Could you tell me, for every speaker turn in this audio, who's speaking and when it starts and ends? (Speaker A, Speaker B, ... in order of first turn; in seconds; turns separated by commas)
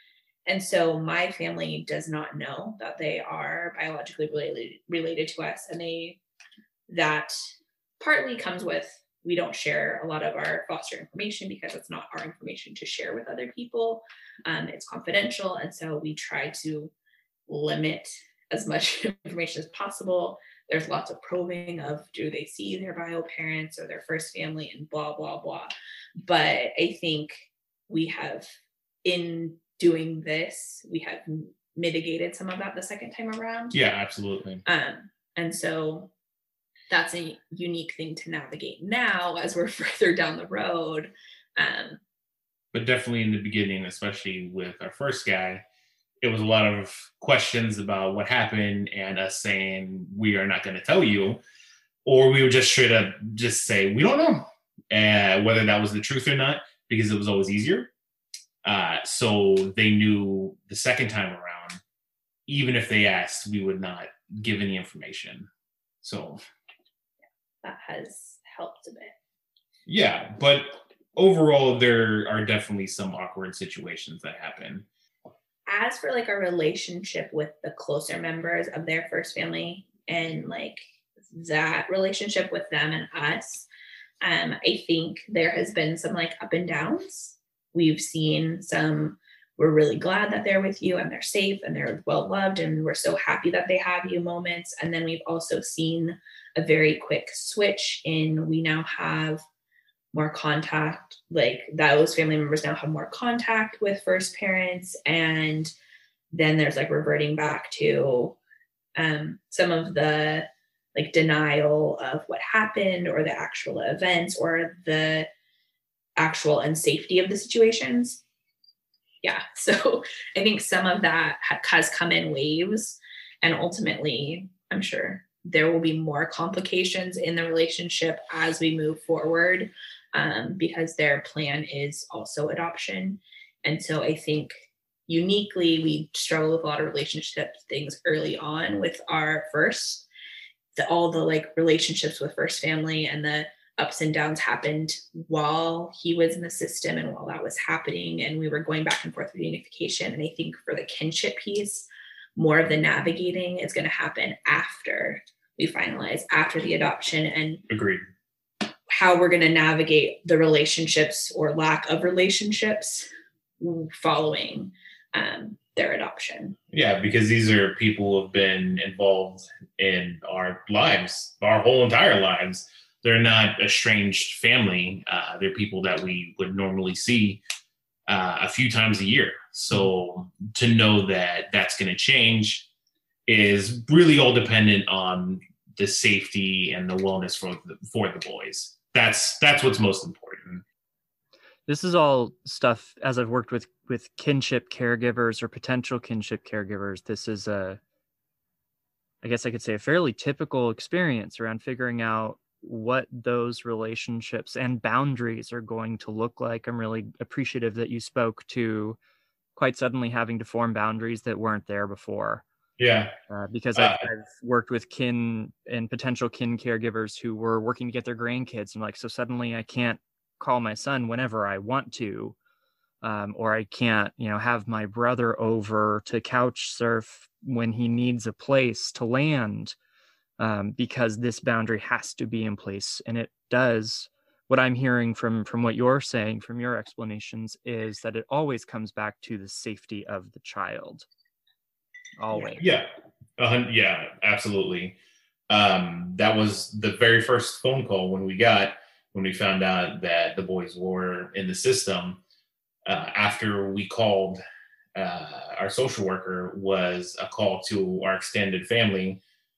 Speaker A: 0.5-6.2, Speaker A: 6.9-7.3, Speaker A: 8.0-16.9, Speaker A: 17.5-28.5, Speaker A: 29.0-33.7, Speaker B: 33.7-34.6, Speaker A: 34.6-36.1, Speaker A: 36.9-42.0, Speaker B: 42.7-45.6, Speaker B: 46.2-51.4, Speaker B: 52.0-57.9, Speaker B: 58.6-61.8, Speaker B: 62.5-65.5, Speaker B: 66.0-66.4, Speaker A: 67.6-69.1, Speaker B: 69.9-74.8, Speaker A: 75.7-83.7, Speaker A: 84.2-99.4, Speaker A: 100.1-105.7, Speaker A: 106.3-108.4, Speaker A: 109.0-115.3, Speaker A: 116.2-118.2, Speaker A: 119.2-134.6, Speaker A: 135.1-140.1, Speaker A: 140.8-157.6, Speaker B: 157.7-158.0, Speaker A: 158.9-163.1, Speaker A: 163.6-166.6, Speaker B: 166.7-177.4, Speaker B: 178.1-182.7, Speaker B: 183.3-190.6, Speaker C: 191.7-197.8, Speaker C: 199.2-209.0, Speaker C: 209.6-212.4, Speaker B: 212.8-213.1, Speaker C: 213.3-222.3, Speaker B: 213.8-214.0, Speaker C: 223.0-229.8, Speaker C: 230.4-241.1, Speaker C: 242.2-242.6, Speaker B: 242.3-245.0, Speaker B: 245.5-252.2, Speaker B: 252.8-254.4, Speaker B: 254.9-259.2